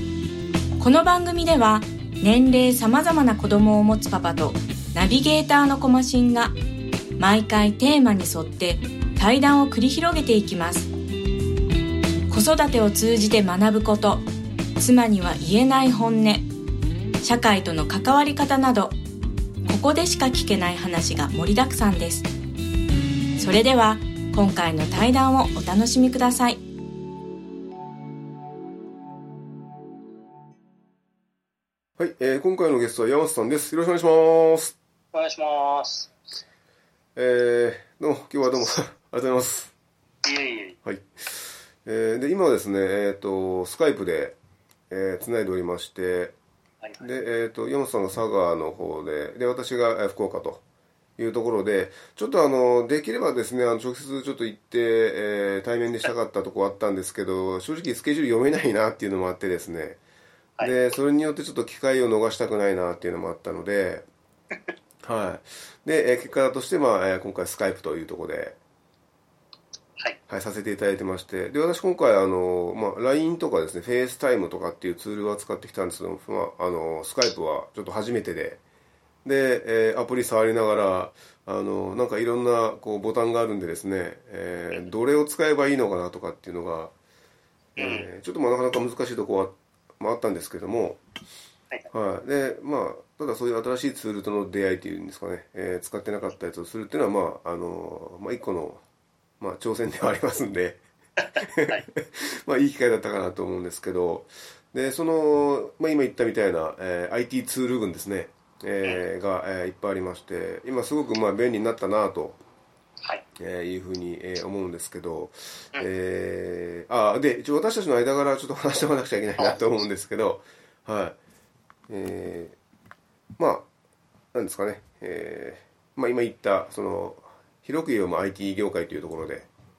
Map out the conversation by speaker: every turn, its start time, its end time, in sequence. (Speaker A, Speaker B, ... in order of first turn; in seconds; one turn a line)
Speaker A: 0.8-6.5
Speaker A: 7.2-10.9
Speaker A: 12.3-14.3
Speaker A: 14.8-16.5
Speaker A: 17.2-18.9
Speaker A: 19.7-22.3
Speaker A: 23.4-26.6
Speaker B: 32.0-34.7
Speaker C: 35.1-36.2
Speaker B: 37.2-39.7
Speaker C: 40.2-40.8
Speaker B: 40.8-44.4
Speaker B: 44.9-46.4
Speaker B: 47.0-50.6
Speaker B: 51.2-60.0
Speaker C: 60.6-60.8
Speaker B: 60.6-64.1
Speaker B: 65.0-68.6
Speaker B: 70.3-78.6
Speaker B: 79.2-86.9
Speaker B: 87.8-91.0
Speaker C: 87.8-88.1
Speaker B: 91.9-98.8
Speaker B: 99.4-100.8
Speaker C: 101.2-101.8
Speaker B: 101.4-112.4
Speaker B: 113.4-121.2
Speaker B: 121.9-122.6
Speaker B: 123.4-123.7
Speaker B: 124.3-129.5